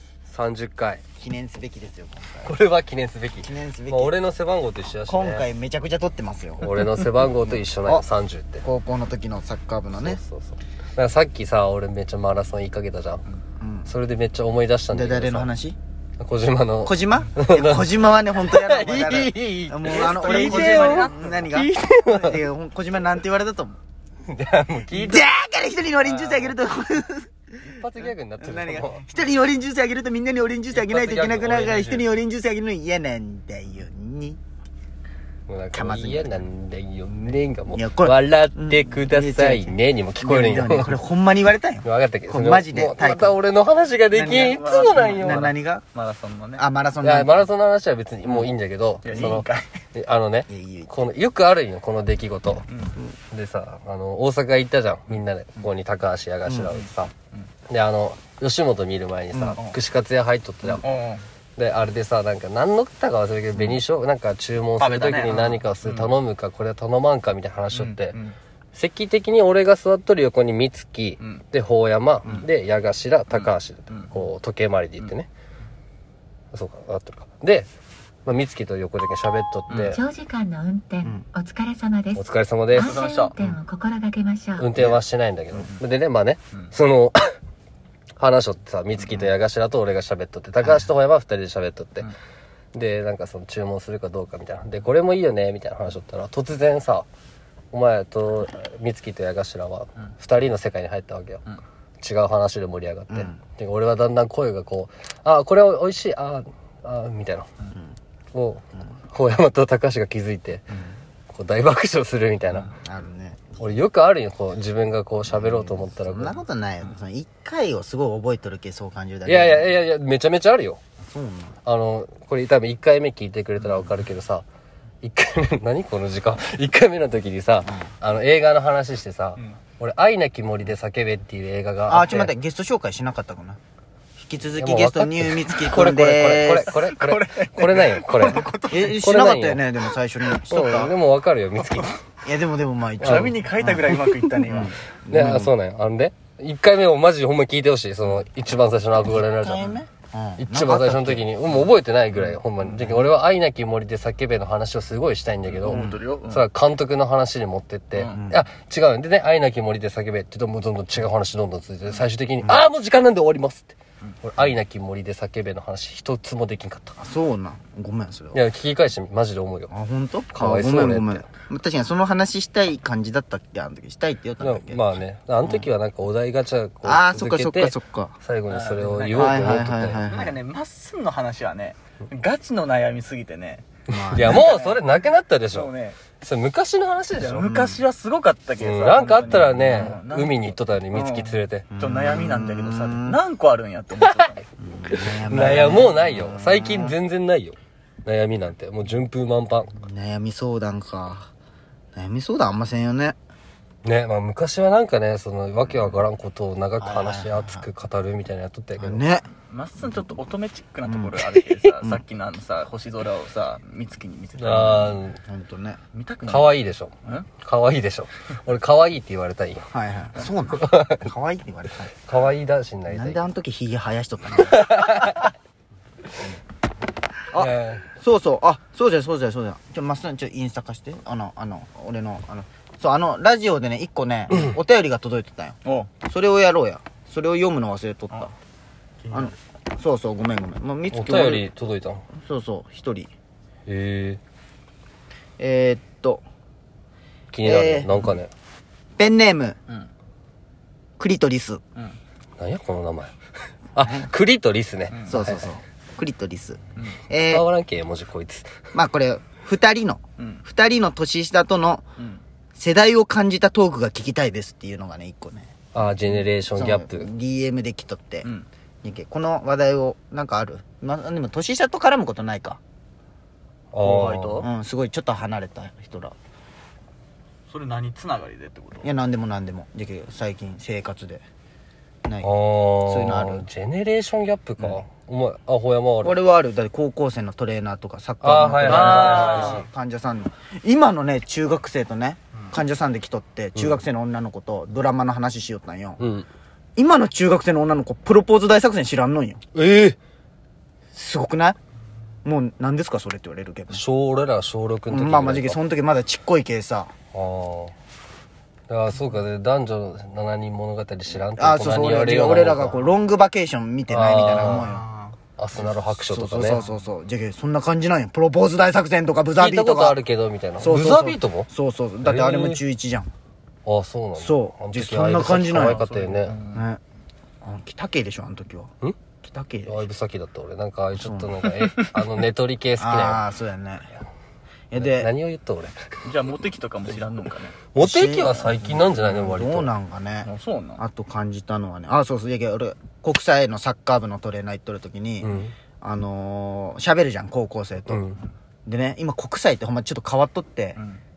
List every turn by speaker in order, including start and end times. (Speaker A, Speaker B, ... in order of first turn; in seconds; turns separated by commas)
Speaker A: 0.2-1.0, Speaker B: 1.2-2.5, Speaker A: 2.4-5.5, Speaker B: 3.4-4.2, Speaker B: 5.1-6.8, Speaker A: 6.6-8.7, Speaker B: 7.4-8.0, Speaker B: 8.6-10.2, Speaker A: 9.9-13.2, Speaker B: 13.6-13.9, Speaker A: 13.8-15.5, Speaker B: 14.9-15.8, Speaker A: 16.2-22.4, Speaker B: 16.8-23.8, Speaker C: 20.0-21.4, Speaker A: 24.3-25.3, Speaker B: 24.9-27.3, Speaker A: 26.0-26.6, Speaker A: 27.6-29.1, Speaker B: 27.9-34.4, Speaker A: 30.7-32.1, Speaker A: 35.5-41.0, Speaker B: 35.7-36.5, Speaker B: 37.7-43.4, Speaker A: 41.8-45.6, Speaker B: 44.1-45.8, Speaker C: 44.4-46.6, Speaker B: 46.6-47.4, Speaker A: 47.0-52.7, Speaker C: 49.0-49.7, Speaker B: 50.5-50.9, Speaker A: 53.2-57.1, Speaker B: 56.5-56.8, Speaker C: 56.8-57.5, Speaker A: 57.7-60.9, Speaker C: 59.3-59.8, Speaker C: 60.7-61.2, Speaker A: 61.6-68.2, Speaker C: 64.8-66.1, Speaker C: 67.7-68.4, Speaker A: 68.7-75.3, Speaker C: 73.3-74.2, Speaker A: 76.5-77.7, Speaker A: 78.2-80.0, Speaker C: 79.7-80.0, Speaker D: 79.9-82.2, Speaker A: 82.1-83.0, Speaker C: 82.7-83.5, Speaker D: 82.8-84.7, Speaker A: 84.5-87.4, Speaker A: 88.2-92.1, Speaker A: 92.7-97.1, Speaker A: 97.7-101.4, Speaker A: 102.0-107.5, Speaker B: 103.1-103.4, Speaker A: 108.3-110.7, Speaker A: 111.3-112.7, Speaker B: 112.5-113.8, Speaker A: 113.6-116.4, Speaker B: 115.3-119.8, Speaker A: 119.2-120.8, Speaker B: 121.0-121.6, Speaker A: 121.6-124.5, Speaker A: 125.0-132.3, Speaker B: 131.9-133.6, Speaker B: 134.2-136.8, Speaker A: 134.6-138.4, Speaker C: 136.6-139.0, Speaker B: 138.5-140.9, Speaker A: 139.0-139.7, Speaker A: 140.5-141.9, Speaker C: 141.6-141.9, Speaker B: 142.2-143.9, Speaker C: 143.0-144.8, Speaker A: 143.0-143.3, Speaker A: 143.9-144.3, Speaker B: 144.5-145.5, Speaker A: 145.1-149.6, Speaker B: 149.1-151.3, Speaker A: 150.4-167.0, Speaker C: 152.2-153.0, Speaker C: 155.5-156.4, Speaker B: 155.7-156.0, Speaker C: 157.9-158.2, Speaker B: 158.1-158.4, Speaker B: 167.0-168.4, Speaker A: 168.3-169.7, Speaker B: 169.7-174.9, Speaker A: 170.3-171.3, Speaker A: 174.4-180.0, Speaker B: 176.8-178.2, Speaker C: 178.5-183.7, Speaker B: 179.2-180.3, Speaker B: 183.9-184.5, Speaker A: 184.1-187.4, Speaker C: 184.2-184.8, Speaker C: 185.5-186.0, Speaker C: 187.2-194.5, Speaker B: 187.2-187.8, Speaker A: 188.6-191.7, Speaker B: 191.7-193.2, Speaker A: 194.0-194.3, Speaker B: 194.6-196.9, Speaker A: 194.9-199.8, Speaker B: 199.8-201.3, Speaker B: 201.9-203.2, Speaker A: 203.8-209.1, Speaker B: 206.8-207.7, Speaker B: 208.8-210.1, Speaker C: 209.5-215.0, Speaker B: 210.8-211.2, Speaker A: 214.4-215.2, Speaker B: 215.2-215.8, Speaker C: 215.9-217.3, Speaker A: 216.3-219.7, Speaker B: 219.7-221.9, Speaker A: 220.5-221.1, Speaker A: 221.9-223.3, Speaker B: 222.9-224.8, Speaker A: 224.4-225.3, Speaker B: 227.3-238.3, Speaker A: 227.4-227.9, Speaker C: 235.7-235.9, Speaker C: 239.0-239.3, Speaker B: 239.1-241.4, Speaker A: 240.9-242.1, Speaker B: 242.2-243.1, Speaker A: 243.7-244.2, Speaker B: 245.4-246.2, Speaker A: 247.3-248.3, Speaker B: 247.4-248.0, Speaker B: 249.0-249.6, Speaker B: 251.0-251.6, Speaker A: 252.4-253.1, Speaker A: 253.8-255.5, Speaker B: 253.8-254.1, Speaker C: 254.9-255.5, Speaker B: 255.1-257.4, Speaker A: 257.2-258.6, Speaker B: 258.7-261.9, Speaker B: 262.6-265.6, Speaker A: 265.7-267.1, Speaker B: 266.6-268.3, Speaker B: 268.8-272.6, Speaker A: 273.7-274.4, Speaker C: 273.8-274.5, Speaker B: 274.4-276.1, Speaker C: 277.5-278.9, Speaker B: 278.8-281.2, Speaker B: 282.1-282.3, Speaker A: 282.2-286.2, Speaker B: 282.8-283.5, Speaker B: 286.0-296.0, Speaker A: 288.2-289.6, Speaker C: 288.7-289.6, Speaker A: 296.0-296.3, Speaker B: 296.8-299.4, Speaker A: 299.5-300.0, Speaker B: 300.9-301.6, Speaker B: 302.2-303.8, Speaker A: 303.7-305.6, Speaker B: 304.9-306.9, Speaker A: 307.1-307.7, Speaker A: 308.7-312.9, Speaker B: 311.4-314.9, Speaker A: 313.9-314.7, Speaker C: 314.5-315.1, Speaker A: 315.4-316.6, Speaker B: 315.6-320.0, Speaker A: 319.4-321.5, Speaker B: 320.6-323.1, Speaker A: 322.0-322.6, Speaker A: 323.7-326.4, Speaker B: 324.1-325.8, Speaker C: 325.6-326.7, Speaker B: 326.5-326.8, Speaker B: 327.4-329.8, Speaker A: 329.6-333.2, Speaker B: 331.0-331.3, Speaker B: 332.8-333.9, Speaker B: 334.7-335.1, Speaker A: 334.7-336.0, Speaker C: 336.1-337.6, Speaker A: 337.7-339.8, Speaker B: 337.8-345.3, Speaker C: 340.2-340.8, Speaker A: 345.2-345.6, Speaker B: 345.8-348.1, Speaker A: 347.9-348.2, Speaker B: 348.7-350.8